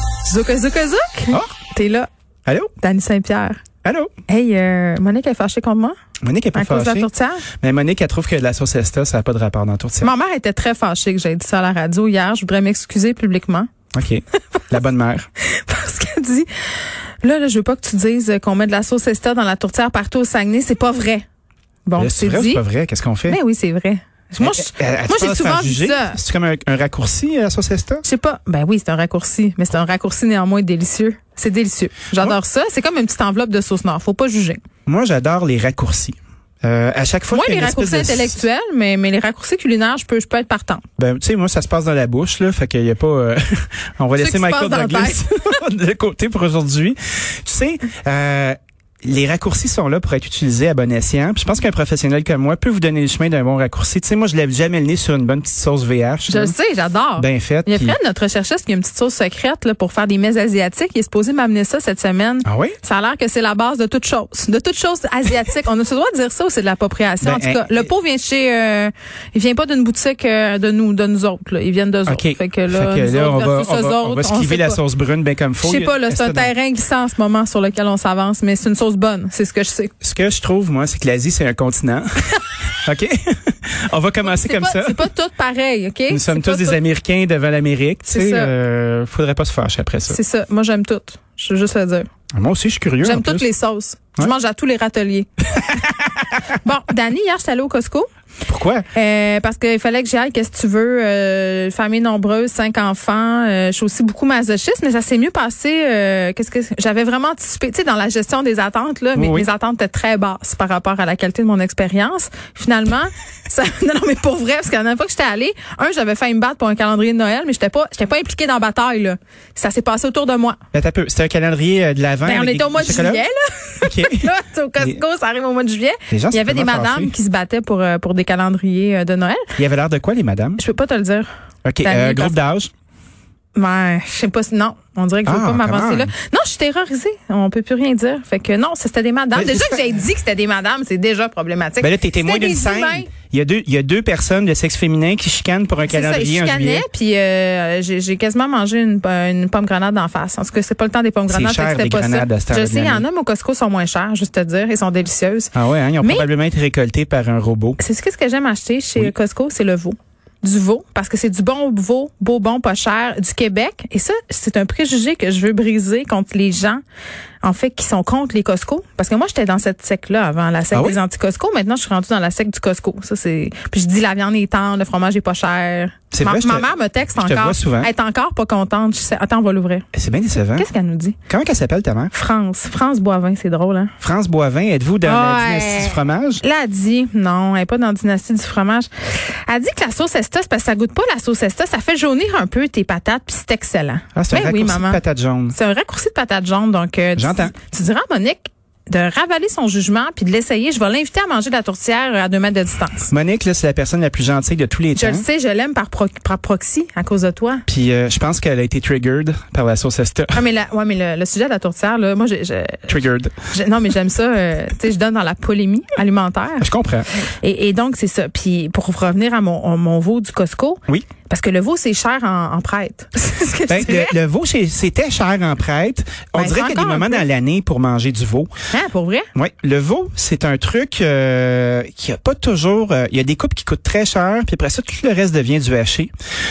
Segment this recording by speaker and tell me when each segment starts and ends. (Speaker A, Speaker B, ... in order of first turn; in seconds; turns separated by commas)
Speaker A: 0.2-2.1, Speaker B: 2.5-2.7, Speaker A: 2.8-3.6, Speaker B: 3.8-4.1, Speaker A: 4.3-5.9, Speaker B: 6.2-7.1, Speaker A: 6.5-7.5, Speaker B: 7.6-10.1, Speaker A: 10.0-13.7, Speaker B: 13.9-15.3, Speaker A: 15.4-21.2, Speaker A: 21.9-22.6, Speaker B: 22.0-23.4, Speaker A: 23.3-26.2, Speaker B: 24.4-28.0, Speaker A: 28.0-34.6, Speaker B: 34.9-38.4, Speaker A: 37.3-40.8, Speaker B: 41.0-56.5, Speaker A: 44.2-45.4, Speaker A: 56.3-74.8, Speaker B: 57.2-58.0, Speaker B: 62.4-62.8, Speaker B: 67.2-67.9, Speaker B: 72.1-76.5, Speaker A: 75.6-79.9, Speaker B: 80.0-85.0, Speaker A: 84.2-86.8, Speaker B: 86.1-90.2, Speaker A: 88.1-88.5, Speaker A: 90.1-92.1, Speaker B: 92.3-93.5, Speaker A: 93.0-95.6, Speaker A: 96.5-98.1, Speaker B: 98.5-98.8, Speaker A: 98.9-120.6, Speaker B: 109.2-109.5, Speaker B: 120.7-123.2, Speaker A: 122.2-129.5, Speaker B: 123.8-125.0, Speaker B: 126.1-127.1, Speaker B: 129.6-130.6, Speaker A: 130.6-131.3, Speaker B: 131.6-132.7, Speaker A: 131.8-132.3, Speaker A: 133.5-143.1, Speaker B: 135.2-136.1, Speaker B: 139.3-139.9, Speaker B: 141.8-146.8, Speaker A: 145.9-156.3, Speaker B: 151.3-153.0, Speaker B: 155.5-157.8, Speaker A: 157.8-166.8, Speaker A: 167.4-179.9, Speaker B: 170.7-171.0, Speaker B: 176.1-177.9, Speaker B: 179.9-180.7, Speaker A: 180.5-181.2, Speaker B: 181.3-182.1, Speaker A: 182.1-183.9, Speaker B: 184.0-186.4, Speaker A: 185.0-203.1, Speaker B: 194.1-195.6, Speaker B: 197.2-197.5, Speaker B: 203.1-205.2, Speaker A: 204.9-207.6, Speaker B: 207.7-210.4, Speaker A: 210.3-212.9, Speaker B: 212.9-213.3, Speaker A: 213.5-224.2, Speaker B: 216.6-217.1, Speaker B: 223.7-228.5, Speaker A: 226.3-227.2, Speaker A: 228.7-229.3, Speaker B: 229.3-236.1